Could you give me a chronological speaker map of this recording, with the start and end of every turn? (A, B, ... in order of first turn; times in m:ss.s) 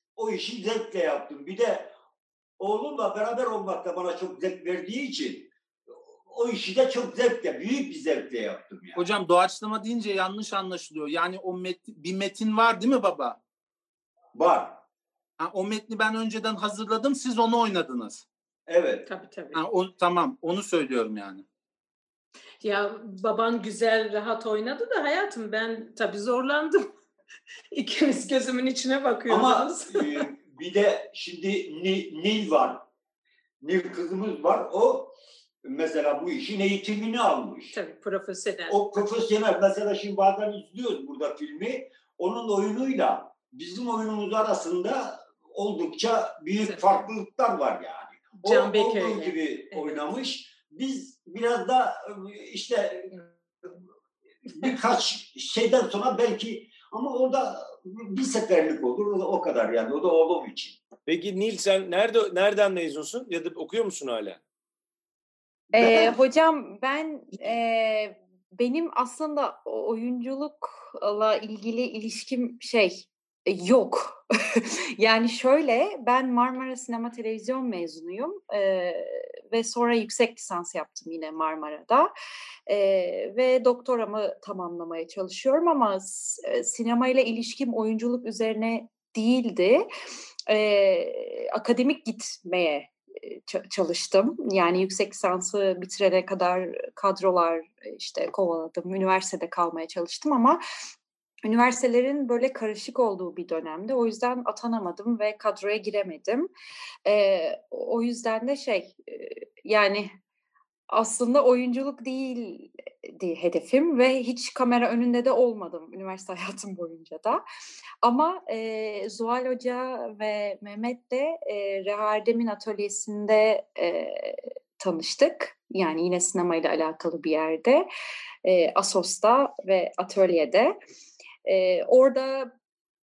0:00.2-0:01.9 A
0:02.6-0:05.5 A
0:06.2-0:09.0 A
0:08.9-0:13.4 B
0:14.3-0:14.8 A
0:15.4-0:18.2 B
0:18.7-0:19.0 A
0:19.0-0:19.6 C
0:19.5-0:21.4 B
0:22.6-0:26.9 C
0:27.7-0:30.3 C
0:29.3-0:32.9 A
0:33.6-0:37.8 A
0:37.7-0:39.0 C
0:38.7-0:53.2 A
0:46.6-0:47.0 C
0:48.4-0:50.0 C
0:54.5-1:00.8 A
1:01.1-1:04.4 D
1:05.7-1:06.1 A
1:05.7-1:22.1 E
1:22.7-1:29.9 E
1:30.5-1:40.6 E
1:41.4-1:46.5 E
1:47.0-1:50.1 E
1:50.9-1:57.4 E
1:58.0-2:07.9 E
2:08.4-2:10.7 E
2:11.4-2:12.5 E